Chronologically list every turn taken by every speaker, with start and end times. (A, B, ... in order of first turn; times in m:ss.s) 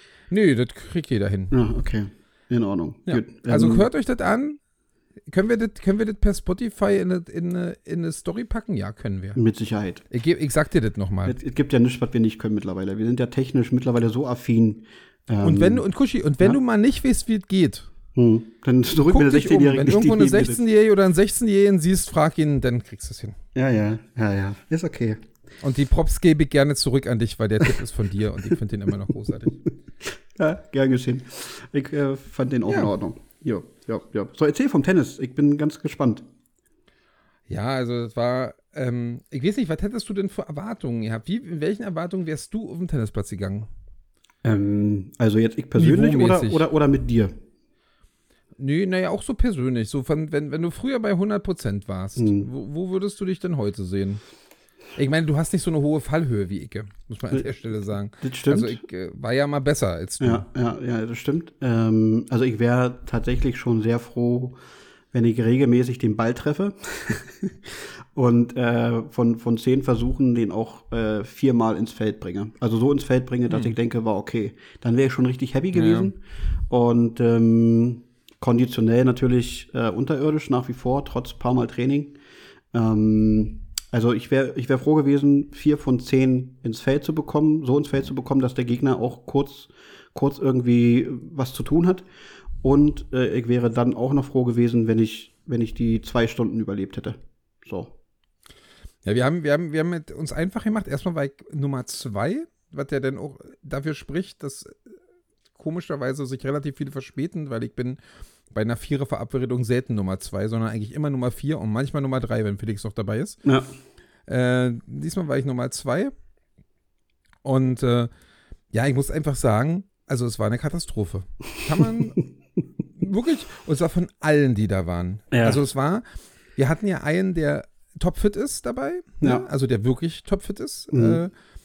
0:00.3-0:01.6 A
0:01.5-0:03.9 B
0:03.1-0:04.6 A
0:05.3-0:09.4 A
0:09.4-0:10.0 B
0:10.1-0:11.4 A
0:11.3-0:15.8 B
0:15.4-0:17.9 A
0:18.1-0:20.6 B
0:19.0-0:23.4 A
0:23.6-0:25.2 B
0:25.6-0:29.6 A
0:30.0-0:36.2 B
0:37.5-0:43.7 A
0:44.4-0:47.3 B
0:45.8-0:46.6 A
0:48.6-0:54.2 A
0:52.2-0:52.5 B
0:55.0-1:00.5 A
0:58.2-0:58.8 B
1:00.2-1:04.6 B
1:05.1-1:22.2 B
1:13.5-1:13.7 A
1:15.7-1:16.1 A
1:22.7-1:32.0 B
1:32.6-1:37.9 B
1:39.0-1:44.8 A
1:45.6-1:48.0 A
1:48.5-1:53.4 A
1:54.3-1:56.1 A
1:57.4-1:58.1 A
1:58.7-2:02.2 A
2:03.0-2:06.0 A
2:05.3-2:05.6 B
2:06.6-2:11.3 A
2:10.9-2:11.2 B